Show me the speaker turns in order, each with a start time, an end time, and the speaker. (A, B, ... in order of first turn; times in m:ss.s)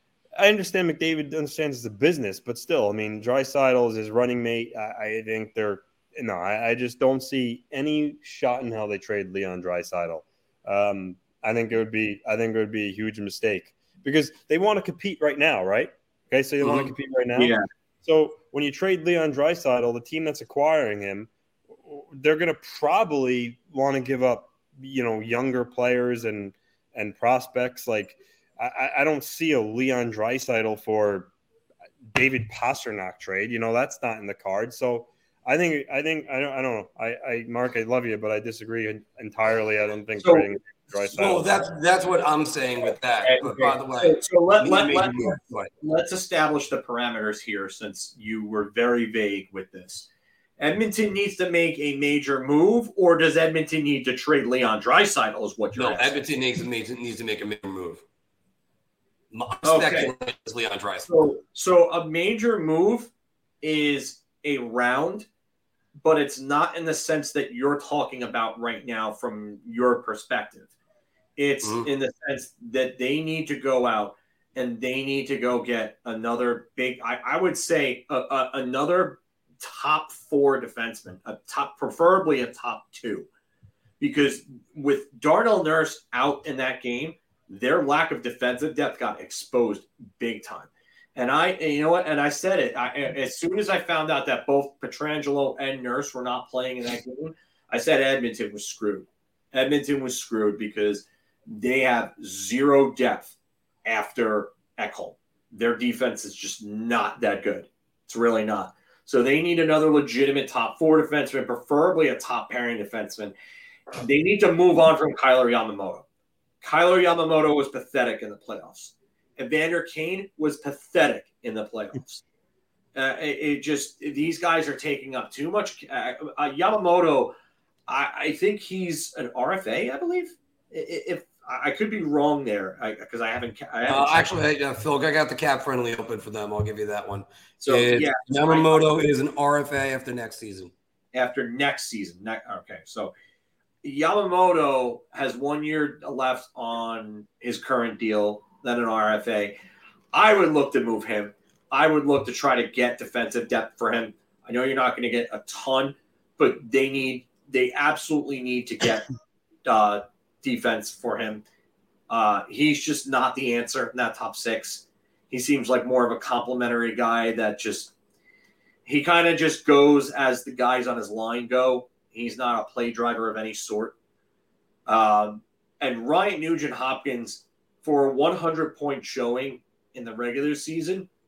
0:00.4-0:21.3 A
0:16.6-0:16.9 B
0:17.4-0:17.6 C
0:21.8-0:31.3 A
0:32.1-0:41.5 A
0:40.2-0:40.5 C
0:41.0-0:45.7 B
0:43.2-0:50.1 C
0:50.6-0:56.2 C
0:55.8-0:58.0 B
0:59.3-1:01.1 B
0:59.6-1:00.1 C
1:01.1-1:03.1 C
1:03.6-1:05.3 C
1:06.0-1:10.7 C
1:11.4-1:23.3 C
1:24.0-1:53.4 C
1:54.0-1:56.1 C
1:56.6-2:02.2 C
2:02.9-2:07.3 C
2:07.9-2:14.4 C
2:13.9-2:20.7 B
2:17.6-2:18.9 C
2:21.1-2:23.1 C
2:23.8-2:29.6 C
2:30.1-2:39.1 C
2:39.6-2:41.4 C
2:42.1-2:47.9 C
2:48.9-2:54.0 C
2:54.9-3:01.1 C